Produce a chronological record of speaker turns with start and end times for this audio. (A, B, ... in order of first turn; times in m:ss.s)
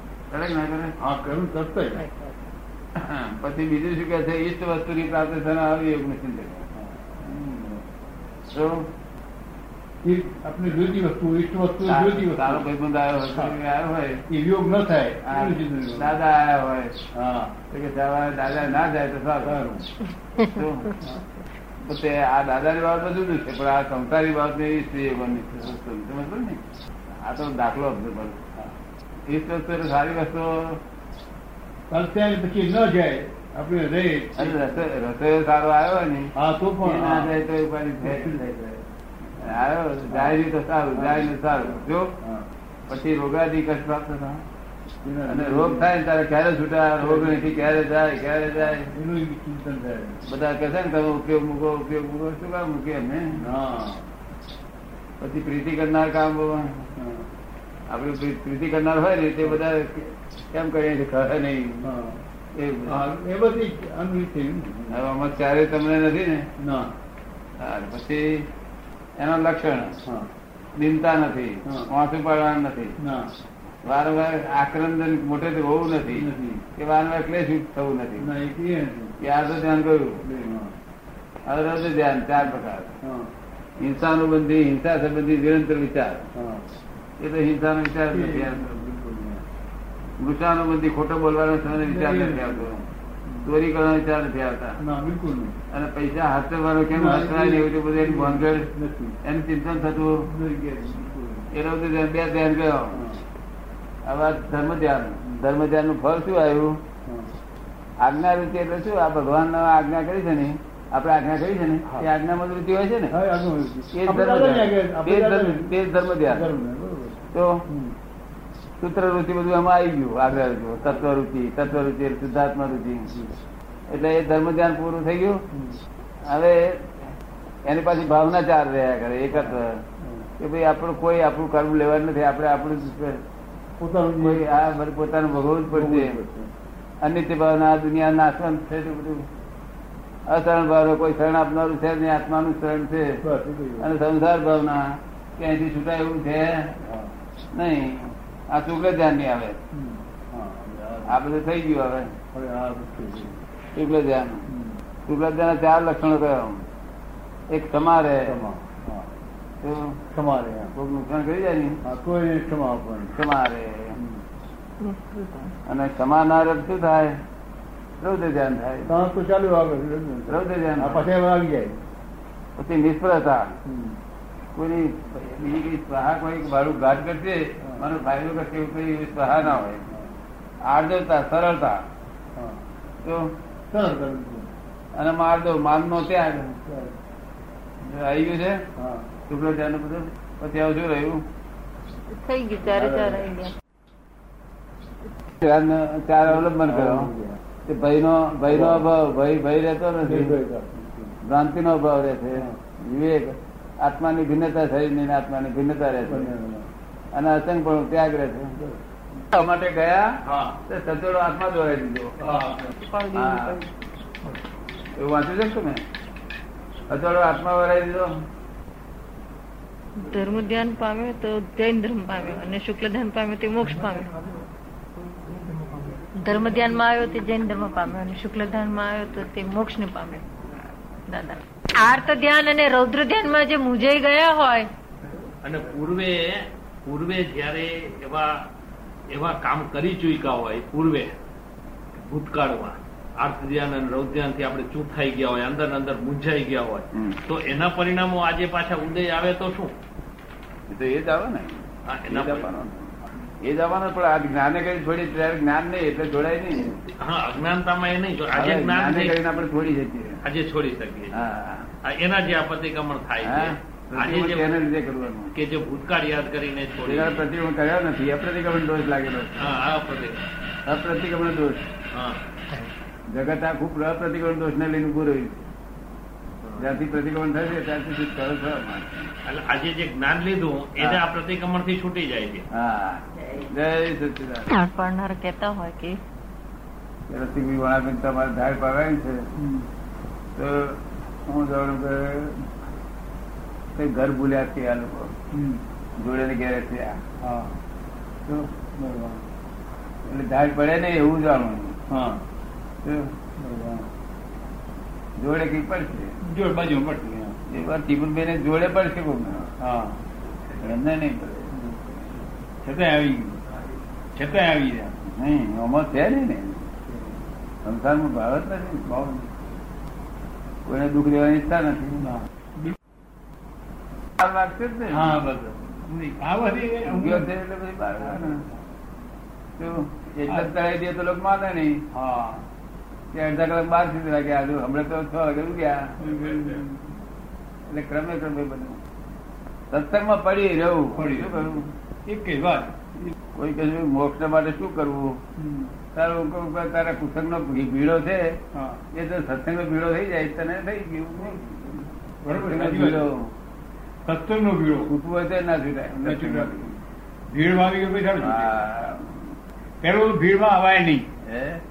0:00.3-0:00.9 A
0:01.0-0:02.0 B
0:02.0-0:02.3 C
0:03.0-0:06.7 A
0:06.8-0:07.8 B
0:08.5-0:08.9 A
0:10.0-0:12.7 B
0:11.8-0:14.2 A
0:14.3-0:16.2 B
0:15.2-0:16.9 A
0:17.1-0:17.6 B
0:17.7-0:19.7 A
0:19.4-0:19.9 B
0:20.4-0:20.9 A
0:21.8-0:26.6 A
0:27.2-0:28.4 A
0:29.3-0:30.8 A
0:31.9-0:34.7 B
0:34.4-0:38.7 A
0:36.3-0:37.3 B
0:38.0-0:38.8 B
0:39.4-0:42.2 A
0:40.1-0:40.4 B
0:40.9-0:42.5 B
0:42.9-0:44.4 A
0:45.0-0:45.9 B
0:45.3-0:48.9 A
0:47.0-0:47.8 B
0:48.9-0:50.2 B
0:50.2-0:53.4 A
0:53.4-0:54.1 B
0:55.2-0:56.9 A
0:57.0-0:57.3 B
0:57.9-1:01.8 A
1:01.8-1:02.2 B
1:02.6-1:03.0 A
1:02.8-1:05.0 B
1:04.9-1:06.5 A
1:06.6-1:06.9 B
1:07.6-1:08.5 A
1:09.2-1:10.0 A
1:10.8-1:13.0 A
1:13.0-1:13.3 B
1:13.8-1:18.3 A
1:16.1-1:16.6 B
1:18.2-1:19.1 B
1:19.2-1:20.3 A
1:20.2-1:20.8 B
1:21.5-1:23.0 A
1:23.0-1:23.3 B
1:23.8-1:26.3 A
1:26.3-1:26.7 B
1:27.2-1:28.8 A
1:28.1-1:29.4 B
1:30.2-1:32.8 A
1:31.8-1:32.8 B
1:33.4-1:34.8 A
1:34.8-1:35.6 B
1:35.7-1:38.7 A
1:36.9-1:39.2 B
1:39.2-1:40.3 A
1:40.2-1:41.5 B
1:41.5-1:43.0 A
1:42.9-1:43.2 B
1:44.1-1:46.8 A
1:47.1-1:47.3 B
1:48.0-1:53.2 A
1:53.1-1:58.0 B
1:53.9-1:56.5 A
1:57.3-1:57.6 A
1:58.8-2:03.1 A
2:03.1-2:03.4 B
2:03.9-2:05.4 A
2:05.5-2:05.8 B
2:06.3-2:06.9 A
2:07.7-2:09.8 A
2:09.3-2:10.3 B
2:10.4-2:13.2 A
2:13.8-2:14.4 B
2:14.2-2:16.2 A
2:15.7-2:16.5 B
2:17.0-2:19.3 A
2:20.3-2:23.2 A
2:23.2-2:23.9 B
2:23.8-2:26.7 A
2:26.8-2:27.1 B
2:27.5-2:29.6 A
2:29.7-2:31.2 B
2:31.1-2:32.1 A
2:32.3-2:33.4 B
2:33.7-2:34.4 A
2:34.5-2:34.8 B
2:35.1-2:36.6 A
2:37.5-2:38.4 A
2:38.2-2:39.1 B
2:39.6-2:40.0 A
2:40.1-2:40.7 B
2:40.7-2:41.8 A
2:41.8-2:43.2 B
2:43.1-2:44.0 A
2:43.9-2:44.2 B
2:44.8-2:45.5 C
2:45.7-2:47.2 A
2:48.0-2:48.9 A
2:48.9-2:51.8 B
2:50.3-2:51.1 A
2:52.6-2:53.5 A
2:53.6-2:54.0 B
2:54.6-2:59.8 A
2:59.4-3:00.2 B
3:00.6-3:01.8 A
3:02.4-3:02.6 B
3:03.0-3:03.3 A
3:03.7-3:04.5 B
3:04.9-3:06.6 A
3:06.6-3:07.0 B
3:07.8-3:08.6 A
3:08.8-3:09.1 B
3:09.3-3:11.2 A
3:12.1-3:13.5 C
3:12.6-3:13.3 B
3:15.4-3:17.1 A
3:16.3-3:17.4 B
3:17.6-3:20.4 A
3:18.5-3:18.9 B
3:20.0-3:21.2 B
3:21.2-3:26.3 A
3:26.1-3:26.7 B
3:27.1-3:28.6 A
3:29.3-3:30.1 A
3:30.2-3:30.5 D
3:30.7-3:32.2 A
3:32.2-3:32.7 B
3:32.8-3:33.7 C
3:33.1-3:33.6 A
3:35.0-3:35.8 A
3:36.9-3:38.2 A
3:40.0-3:44.1 C
3:46.2-3:50.2 C
3:51.1-3:54.7 C
3:55.4-3:58.4 D
3:59.1-4:01.1 D
4:02.0-4:09.8 D
4:06.9-4:07.2 A
4:10.7-4:12.9 A
4:11.9-4:12.5 D
4:13.4-4:16.8 A
4:17.0-4:19.2 D
4:18.3-4:20.2 A
4:20.2-4:21.2 D
4:21.1-4:21.7 A
4:21.8-4:24.5 D
4:23.2-4:25.3 A
4:25.4-4:27.2 D
4:26.8-4:29.5 A
4:29.4-4:30.2 D
4:30.7-4:31.7 A
4:31.9-4:32.2 D
4:33.1-4:35.4 A
4:36.6-4:39.1 A
4:39.2-4:42.4 D
4:42.5-4:44.5 A
4:44.5-4:46.0 C
4:47.1-4:49.3 A
4:49.4-4:49.7 B
4:50.4-4:52.5 A
4:53.8-4:55.1 A
4:55.3-4:55.6 B
4:56.0-4:57.0 A
4:57.2-4:57.6 B
4:58.3-4:59.3 B
5:00.0-5:01.8 A
5:01.9-5:02.2 B
5:02.8-5:03.1 A
5:03.4-5:03.9 B
5:05.2-5:06.2 A
5:06.2-5:07.4 B
5:07.5-5:09.5 A
5:09.6-5:10.0 B
5:10.6-5:11.5 A
5:11.5-5:11.9 B
5:12.6-5:13.4 B
5:14.1-5:14.9 B
5:15.0-5:16.7 A
5:17.6-5:18.9 A
5:18.9-5:19.3 B
5:20.7-5:22.1 A
5:22.0-5:22.8 B
5:24.2-5:25.2 A
5:24.9-5:27.3 B
5:26.9-5:28.4 A
5:28.1-5:28.4 B
5:29.6-5:31.8 A
5:31.9-5:32.4 B
5:33.1-5:35.9 A
5:36.0-5:36.8 B
5:37.7-5:38.8 A
5:39.7-5:41.7 A
5:40.9-5:43.1 B
5:43.4-5:45.2 A
5:45.4-5:45.8 B
5:45.9-5:48.4 A
5:48.5-5:48.8 B
5:48.9-5:53.3 A
5:52.2-5:53.1 B
5:54.0-5:54.9 B
5:54.9-5:56.7 A
5:56.0-5:56.8 B
5:57.3-5:58.5 B
5:58.2-5:59.2 A
5:59.8-6:01.1 B
6:01.2-6:01.6 A